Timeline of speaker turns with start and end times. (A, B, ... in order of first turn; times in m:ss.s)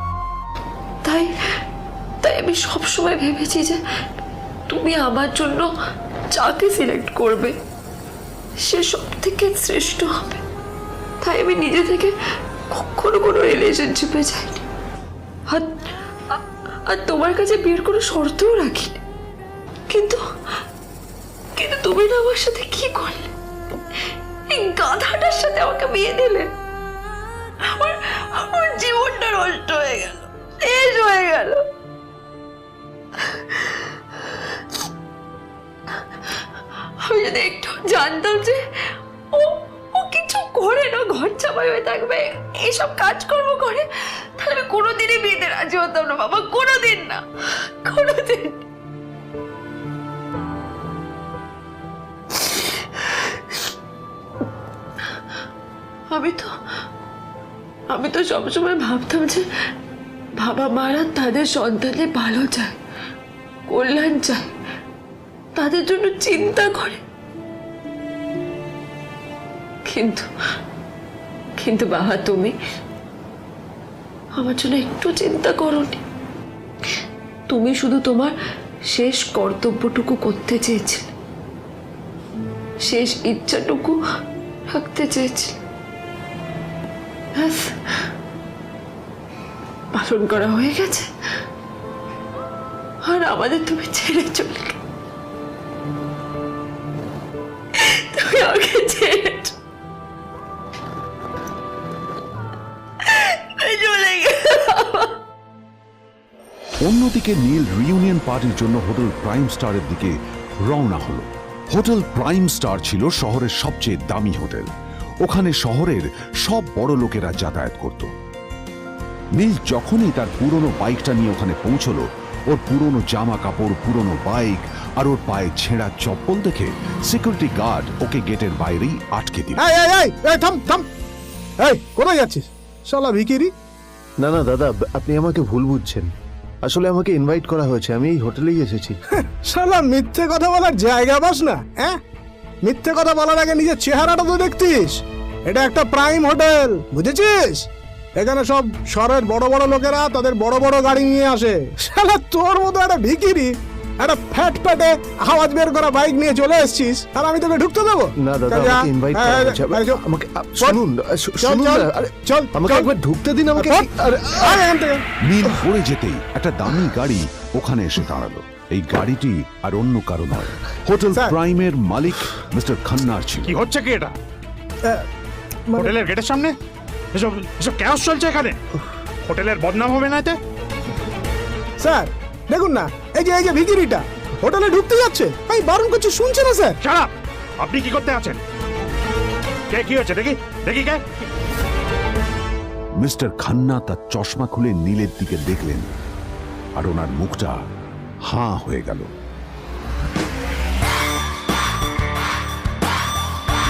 0:01.0-0:01.3 A
0:02.2-0:03.8 A
0:04.7-0:05.7 A
0:06.3-0:07.6 A
0:08.7-0:10.4 A
0:11.2-0:12.1 A
0:12.7-0:14.6 A
0:16.3-0:19.0 A
0:19.9-0:20.2 A
0:21.6-0:23.3 A
0:24.5-0:26.5 A
0:27.7-0:31.6 A
0:33.3-0:33.8 A
0:37.0-0:38.6 A
0:39.3-0:43.9 A
0:44.4-0:47.2 A
0:47.8-0:48.6 A
0:56.1-0:56.5 A
0:57.9-0:59.4 A
1:00.4-1:02.8 A
1:03.7-1:04.5 A
1:05.6-1:07.0 A
1:09.9-1:10.3 A
1:11.6-1:12.6 A
1:14.4-1:16.0 A
1:17.5-1:18.3 A
1:18.9-1:21.1 A
1:22.9-1:24.0 A
1:24.7-1:25.6 A
1:27.4-1:27.8 A
1:29.9-1:31.1 A
1:33.0-1:34.8 A
1:37.8-1:39.5 A
1:43.1-1:45.1 A
1:46.8-1:54.7 B
1:55.2-1:58.1 B
1:59.4-2:09.6 B
2:09.6-2:10.9 C
2:11.6-2:13.5 C
2:14.2-2:16.1 D
2:16.6-2:19.0 D
2:19.1-2:22.0 C
2:22.6-2:40.0 C
2:38.2-2:44.6 D
2:41.4-2:42.9 C
2:43.6-2:45.0 C
2:45.2-2:53.6 B
2:53.4-2:54.2 E
2:55.7-2:55.9 C
2:55.8-2:56.6 E
2:57.1-2:58.6 E
2:59.2-3:00.4 E
3:01.8-3:06.8 C
3:06.8-3:08.4 E
3:09.7-3:11.0 E
3:13.0-3:15.9 B
3:16.8-3:17.6 B
3:18.2-3:19.1 B